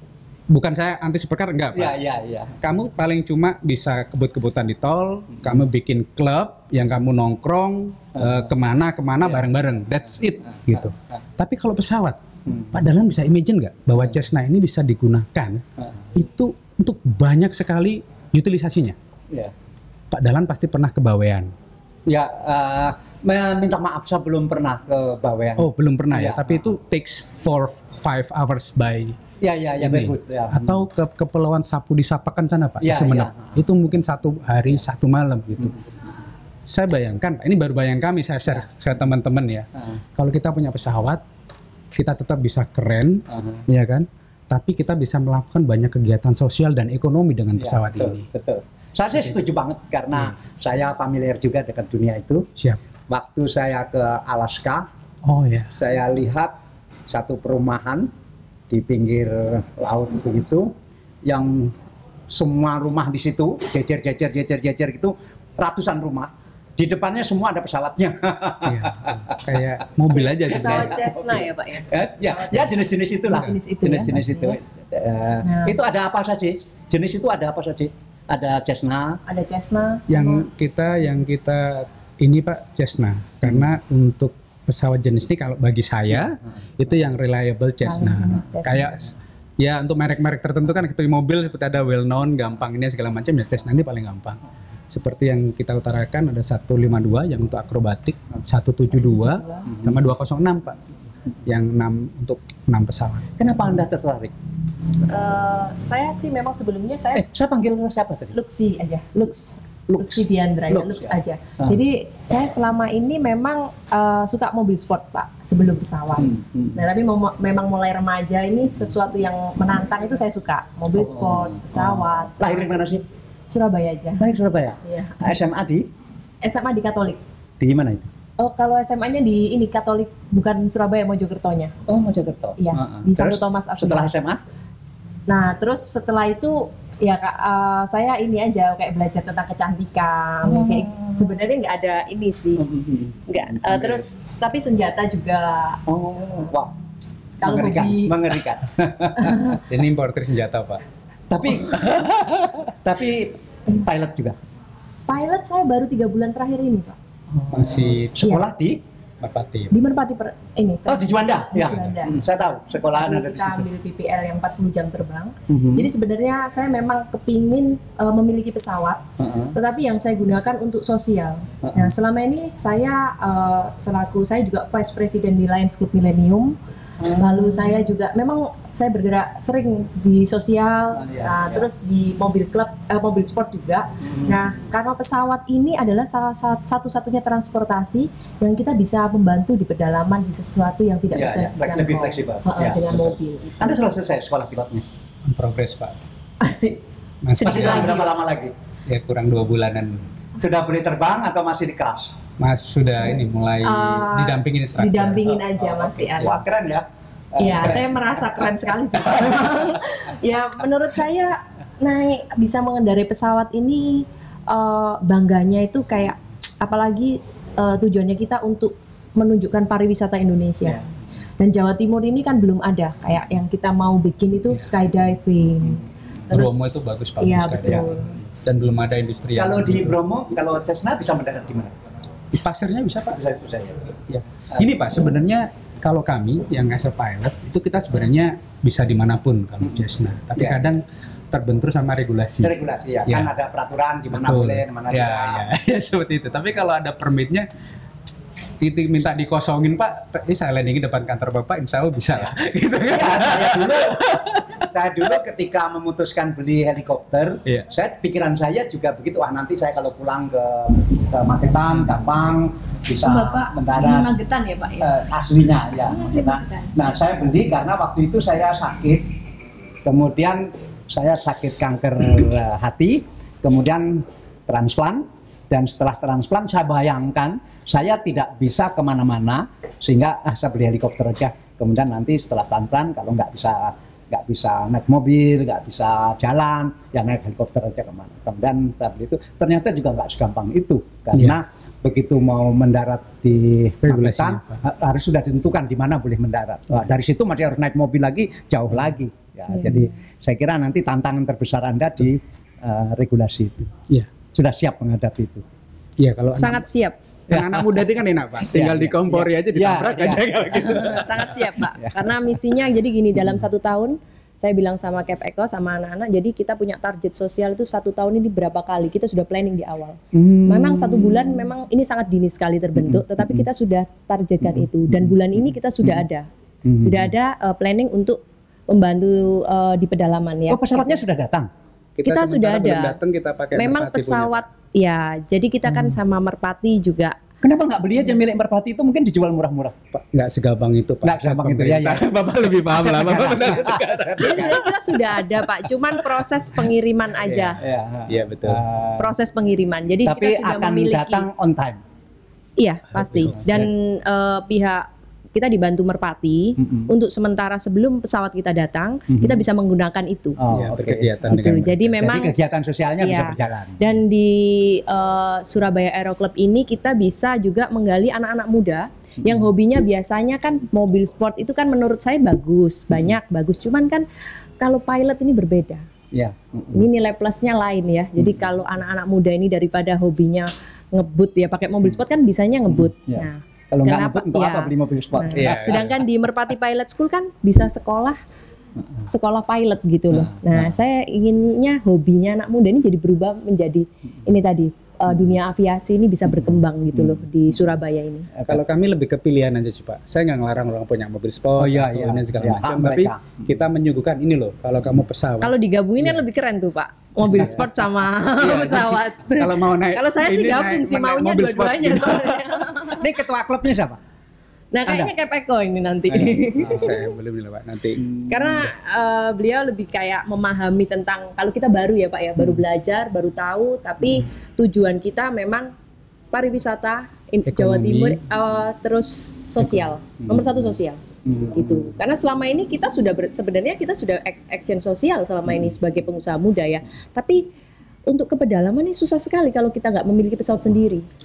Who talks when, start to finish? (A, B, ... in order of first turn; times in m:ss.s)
0:00.5-0:01.9 A
0:01.7-0:02.5 B
0:02.6-0:12.2 A
0:08.2-0:08.5 B
0:12.7-0:15.6 A
0:16.1-0:19.0 A
0:20.1-0:21.5 A
0:22.1-0:26.6 B
0:25.6-0:29.2 A
0:29.4-0:30.8 B
0:29.8-0:35.8 A
0:32.8-0:33.6 B
0:36.7-0:41.2 A
0:41.9-0:48.3 A
0:43.3-0:43.6 B
0:47.6-0:52.4 B
0:53.1-0:54.9 B
0:55.2-0:55.7 A
0:55.7-0:56.5 B
0:57.1-0:58.1 B
0:58.7-1:00.7 B
1:01.2-1:01.8 B
1:02.3-1:09.8 B
1:08.6-1:11.0 A
1:10.1-1:14.5 C
1:10.4-1:19.2 B
1:14.1-1:14.5 A
1:15.4-1:15.8 C
1:19.3-1:20.5 C
1:20.1-1:29.1 A
1:27.8-1:29.0 C
1:29.6-1:34.4 A
1:34.9-1:40.8 A
1:38.9-1:39.7 C
1:41.4-1:43.3 A
1:43.4-1:44.3 B
1:44.8-1:47.2 C
1:47.1-1:48.4 B
1:48.3-2:04.3 C
1:49.9-1:51.8 B
1:56.2-1:56.8 B
2:00.9-2:03.0 B
2:04.2-2:05.9 B
2:04.8-2:05.3 C
2:06.4-2:07.2 C
2:07.6-2:08.1 B
2:08.4-2:11.7 C
2:11.9-2:14.4 B
2:12.6-2:14.1 C
2:15.3-2:22.7 C
2:20.4-2:21.3 B
2:22.6-2:24.0 B
2:23.3-2:25.8 C
2:25.9-2:26.7 B
2:27.4-2:28.2 C
2:27.4-2:29.6 B
2:29.2-2:29.6 C
2:29.5-2:30.8 A
2:31.3-2:34.4 B
2:31.6-2:32.5 A
2:35.1-2:37.0 C
2:37.3-2:38.8 B
2:37.5-2:38.2 A
2:38.2-2:38.5 C
2:39.2-2:39.7 A
2:39.7-2:56.6 C
2:40.8-2:43.7 B
2:45.5-2:45.9 B
2:49.2-2:49.5 B
2:51.6-2:51.9 B
2:57.0-2:57.7 B
2:57.1-3:13.8 C
3:00.9-3:01.7 B
3:04.1-3:04.4 B
3:11.1-3:14.8 B
3:15.2-3:16.0 A
3:16.4-3:16.8 C
3:17.2-3:18.0 A
3:17.4-3:18.1 C
3:17.4-3:18.5 B
3:18.9-3:20.1 A
3:20.4-3:22.1 B
3:22.4-3:25.3 A
3:23.6-3:26.4 C
3:25.7-3:28.0 B
3:27.4-3:40.8 C
3:41.4-3:48.2 C
3:46.3-3:47.9 A
3:48.4-3:49.9 A
3:49.4-3:51.7 B
3:52.3-3:53.2 A
3:53.1-3:53.8 B
3:54.1-4:03.3 A
3:54.5-3:54.8 B
4:00.4-4:00.6 B
4:02.4-4:05.4 B
4:04.2-4:07.5 A
4:08.6-4:14.6 A
4:12.9-4:24.1 B
4:23.0-4:26.8 C
4:24.8-4:29.0 B
4:29.8-5:03.6 B
4:53.8-4:54.6 A
4:59.5-4:59.9 C
5:04.3-5:05.4 B
5:06.0-5:06.6 A
5:06.3-5:07.0 C
5:07.3-5:11.4 A
5:07.3-5:07.8 B
5:08.5-5:10.9 B
5:10.6-5:26.3 C
5:11.8-5:12.1 B
5:20.1-5:21.5 B
5:22.8-5:23.4 B
5:24.4-5:25.1 B
5:26.6-5:27.1 B
5:26.8-5:31.0 C
5:30.5-5:31.5 B
5:32.0-5:34.4 A
5:32.0-5:33.0 C
5:33.6-5:37.2 C
5:35.7-5:36.0 B
5:37.4-5:39.8 B
5:39.9-5:44.7 A
5:41.0-5:44.7 B
5:44.2-5:47.6 C
5:47.3-5:48.6 A
5:47.6-5:49.2 B
5:49.0-5:51.3 C
5:50.0-5:51.8 B
5:52.6-6:00.4 C
5:53.0-5:53.7 A
5:53.3-5:53.6 B
5:56.6-5:56.9 B
5:59.1-5:59.4 B
6:00.4-6:03.9 B
6:00.5-6:02.0 A
6:01.3-6:02.3 C
6:03.0-6:14.0 C
6:14.6-6:15.8 C
6:16.1-6:16.9 B
6:16.7-6:28.2 C
6:18.2-6:18.5 B
6:22.7-6:26.0 B
6:25.3-6:26.0 A
6:28.8-6:29.1 B
6:29.1-6:38.3 C
6:30.1-6:30.8 B
6:35.1-6:35.3 B
6:36.3-6:37.3 B
6:38.3-6:38.6 B
6:38.4-6:45.5 A
6:41.6-6:43.3 B
6:45.4-6:53.1 C
6:48.4-6:52.7 A
6:52.9-6:54.0 B
6:54.7-6:57.0 C
6:54.9-6:55.1 B
6:56.1-6:57.0 B
6:56.6-6:58.0 A
6:58.0-6:58.6 B
6:58.3-7:05.7 C
7:06.3-7:11.0 C
7:07.5-7:08.2 A
7:10.2-7:10.7 B
7:11.2-7:11.9 B
7:11.5-7:17.4 C
7:18.1-7:21.0 C